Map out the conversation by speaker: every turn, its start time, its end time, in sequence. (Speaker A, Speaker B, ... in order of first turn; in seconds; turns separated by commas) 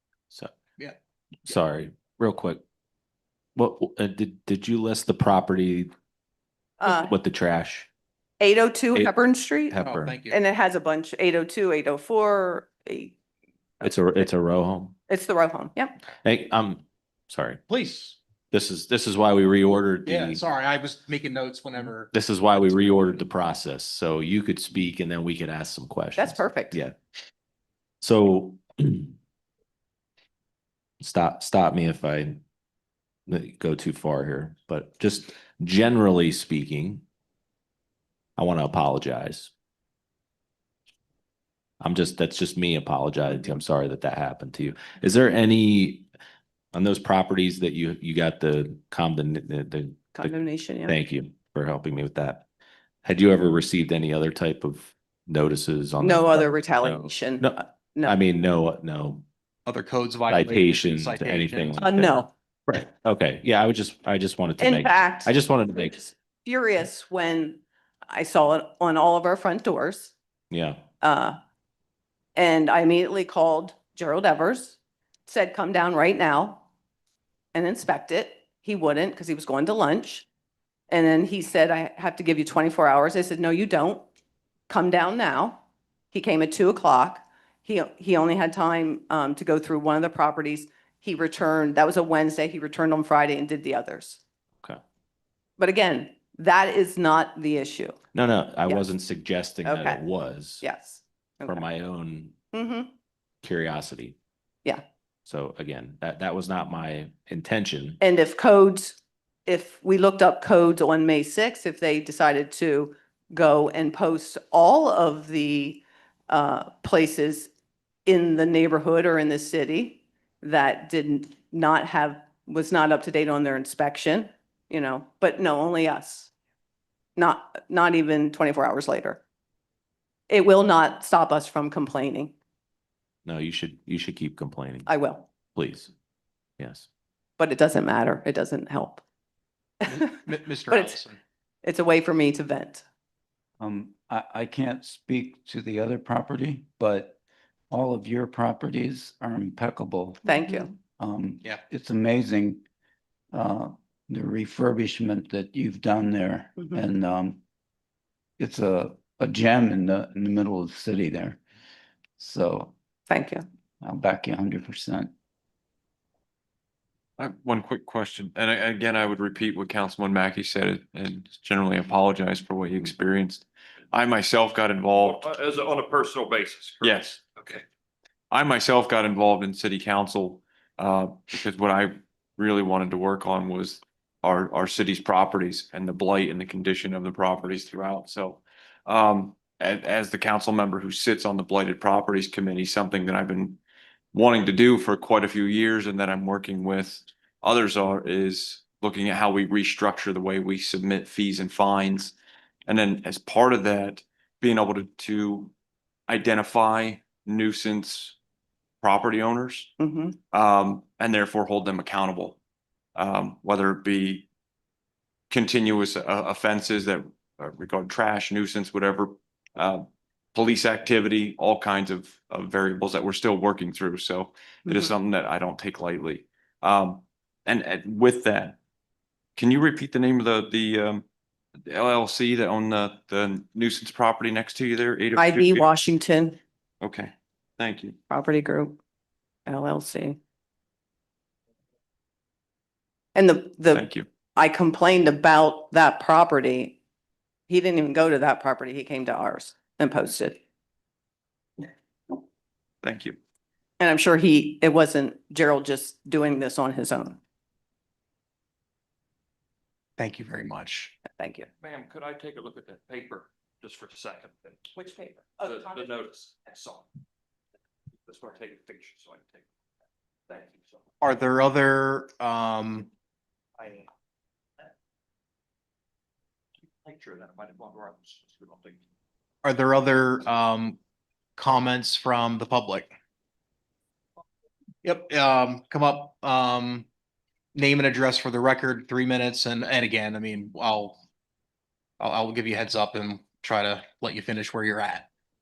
Speaker A: 1.5-2.6, Speaker A: 3.6-5.9, Speaker B: 6.8-7.1, Speaker A: 6.8-7.9, Speaker B: 8.4-13.2, Speaker A: 9.7-10.2, Speaker C: 9.8-10.4, Speaker A: 13.8-14.9, Speaker B: 15.1-16.0, Speaker A: 16.2-17.6, Speaker C: 17.7-18.2, Speaker A: 18.5-20.4, Speaker C: 20.1-22.1, Speaker A: 22.1-27.0, Speaker B: 26.2-26.8, Speaker A: 28.0-29.1, Speaker A: 31.0-32.4, Speaker A: 33.3-37.0, Speaker A: 38.4-39.5, Speaker A: 41.8-46.1, Speaker A: 46.7-52.5, Speaker B: 50.1-50.9, Speaker A: 53.0-59.2, Speaker B: 56.0-58.2, Speaker C: 59.7-61.9, Speaker A: 60.3-66.0, Speaker B: 61.8-62.3, Speaker B: 64.6-70.1, Speaker A: 70.5-70.8, Speaker B: 71.0-71.4, Speaker B: 72.3-76.6, Speaker B: 77.5-80.3, Speaker B: 80.9-84.0, Speaker B: 84.7-94.2, Speaker B: 95.6-98.0, Speaker A: 98.1-100.7, Speaker B: 99.7-100.0, Speaker B: 100.6-101.6, Speaker A: 101.5-102.4, Speaker B: 102.5-102.9, Speaker A: 103.4-104.2, Speaker A: 105.2-108.0, Speaker B: 108.0-117.5, Speaker B: 118.1-126.3, Speaker B: 127.2-129.2, Speaker B: 130.3-132.3, Speaker A: 133.2-135.0, Speaker B: 134.9-135.3, Speaker A: 135.5-135.9, Speaker A: 136.6-136.9, Speaker B: 137.4-139.0, Speaker C: 139.9-141.2, Speaker B: 140.7-141.0, Speaker B: 141.6-142.8, Speaker D: 143.6-147.2, Speaker D: 147.7-152.6, Speaker B: 150.2-150.7, Speaker D: 153.3-157.4, Speaker D: 158.4-161.4, Speaker D: 162.2-162.7, Speaker B: 163.1-163.4, Speaker D: 163.8-165.1, Speaker E: 167.2-175.3, Speaker F: 174.9-177.6, Speaker E: 176.8-177.2, Speaker E: 178.3-193.6, Speaker E: 194.1-202.1, Speaker E: 202.7-205.5, Speaker E: 206.1-208.2, Speaker E: 208.8-209.7, Speaker B: 209.8-210.2, Speaker E: 210.3-212.4, Speaker E: 213.0-214.3, Speaker E: 215.3-228.6, Speaker E: 229.4-231.0, Speaker E: 231.7-235.7, Speaker B: 235.2-236.4, Speaker E: 236.8-238.0, Speaker B: 238.1-238.8, Speaker B: 239.5-240.2, Speaker B: 243.2-246.8, Speaker E: 243.7-244.1, Speaker B: 247.5-250.4, Speaker E: 252.8-253.2, Speaker B: 253.8-257.2, Speaker C: 260.0-261.0, Speaker B: 261.1-261.5, Speaker F: 261.6-264.7, Speaker B: 264.8-265.9, Speaker F: 265.4-266.8, Speaker F: 268.1-269.5, Speaker F: 270.3-270.9, Speaker C: 271.0-272.9, Speaker F: 273.6-273.8, Speaker F: 276.8-278.8, Speaker C: 279.4-280.8, Speaker C: 281.4-282.9, Speaker C: 284.8-286.9, Speaker C: 287.5-291.0, Speaker C: 292.0-295.1